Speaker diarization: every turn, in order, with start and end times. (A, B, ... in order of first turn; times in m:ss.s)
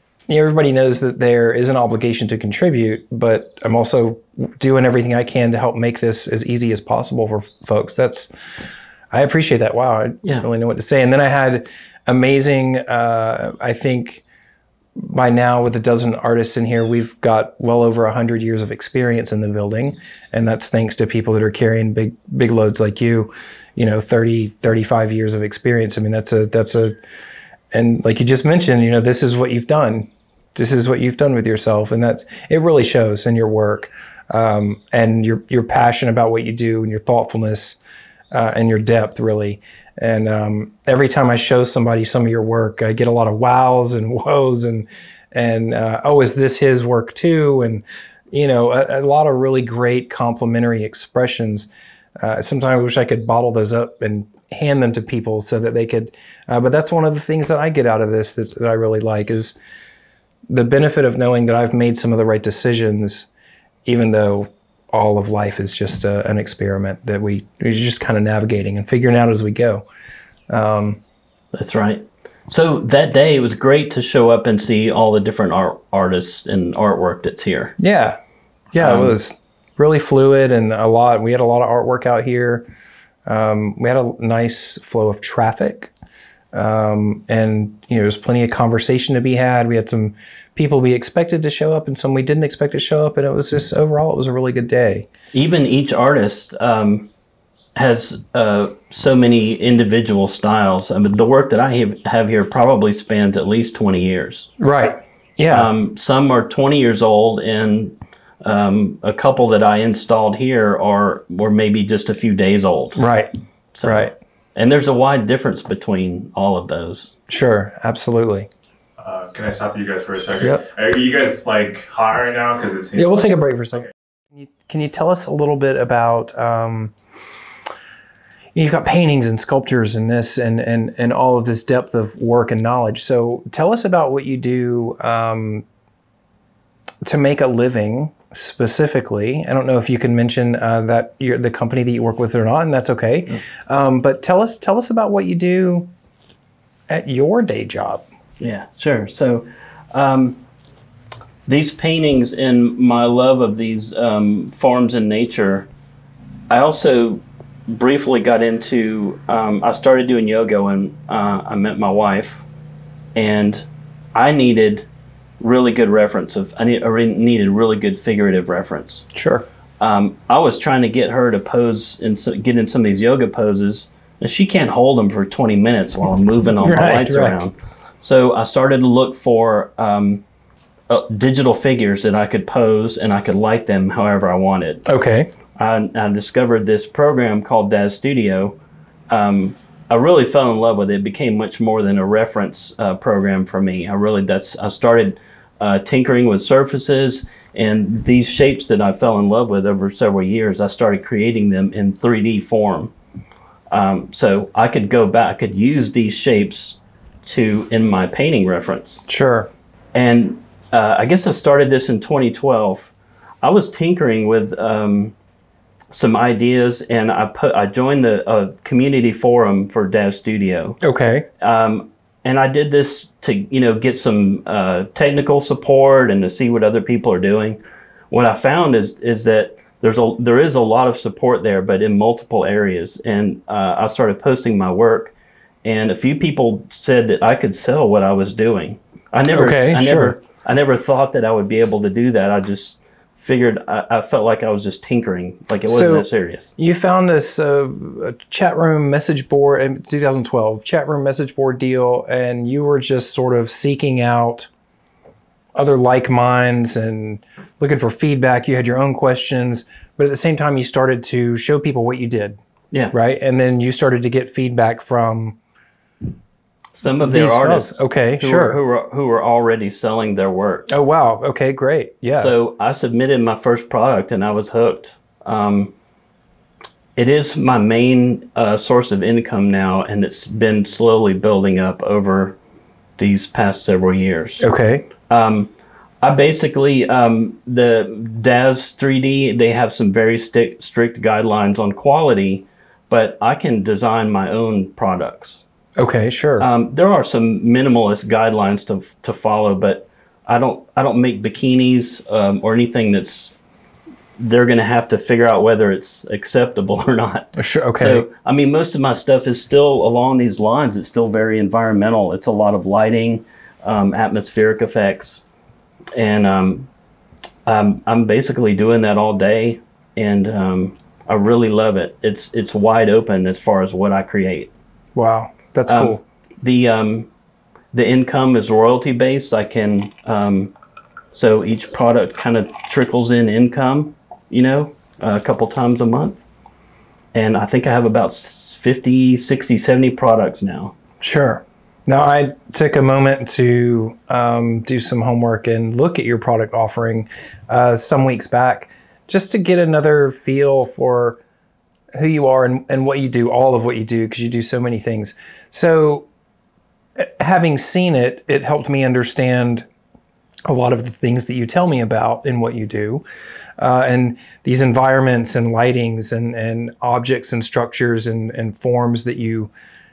0:00.3-0:08.3 A
0:09.1-0:14.2 A
0:15.0-0:27.0 A
0:27.7-0:37.8 A
0:38.3-0:51.7 A
0:52.2-0:59.6 A
1:00.5-1:03.3 A
1:03.9-1:09.9 A
1:10.5-1:11.0 A
1:11.5-1:17.8 B
1:17.8-1:18.2 A
1:18.7-1:22.7 A
1:18.8-1:19.2 B
1:23.3-1:25.9 A
1:26.5-1:35.1 A
1:35.3-1:37.1 B
1:37.8-1:44.5 B
1:44.6-1:45.7 A
1:45.5-1:53.0 B
1:53.0-1:53.3 A
1:53.7-1:57.1 B
1:53.8-1:54.1 A
1:57.3-1:58.5 A
1:59.0-2:03.2 C
2:00.4-2:00.6 A
2:03.0-2:06.9 A
2:08.6-2:15.6 A
2:17.0-2:25.9 A
2:26.9-2:28.0 A
2:28.4-2:30.4 B
2:31.5-2:35.7 B
2:36.5-2:42.4 B
2:43.2-2:44.9 B
2:45.4-2:49.1 B
2:49.1-2:49.5 A
2:49.8-3:00.2 B
2:56.6-2:57.4 A
3:00.9-3:04.8 B
3:04.9-3:05.3 A
3:05.6-3:08.6 B
3:09.1-3:22.9 B
3:23.7-3:29.0 B
3:29.1-3:29.5 A
3:29.9-3:35.2 B
3:35.9-3:40.8 B
3:40.8-3:41.3 A
3:41.4-4:06.5 B
3:59.3-4:00.2 A
4:05.7-4:14.5 A
4:15.6-4:22.4 A
4:22.9-4:25.4 A
4:26.8-4:30.7 B
4:27.0-4:28.6 A
4:30.7-4:32.3 A
4:32.2-4:35.7 B
4:37.0-4:42.4 B
4:43.0-4:44.5 B
4:44.4-4:44.9 A
4:45.1-4:55.4 B
4:55.8-4:56.5 A
4:56.4-5:03.3 B
5:04.2-5:15.2 B
5:07.4-5:08.1 A
5:15.9-5:16.7 B
5:17.5-5:24.5 B
5:25.0-5:26.0 A
5:25.7-5:27.1 B
5:27.7-5:30.5 B
5:31.1-5:36.2 B
5:37.1-5:40.7 B
5:41.0-5:51.2 A
5:51.9-5:56.1 A
5:57.0-5:59.7 A
6:00.5-6:03.0 A
6:03.6-6:09.5 A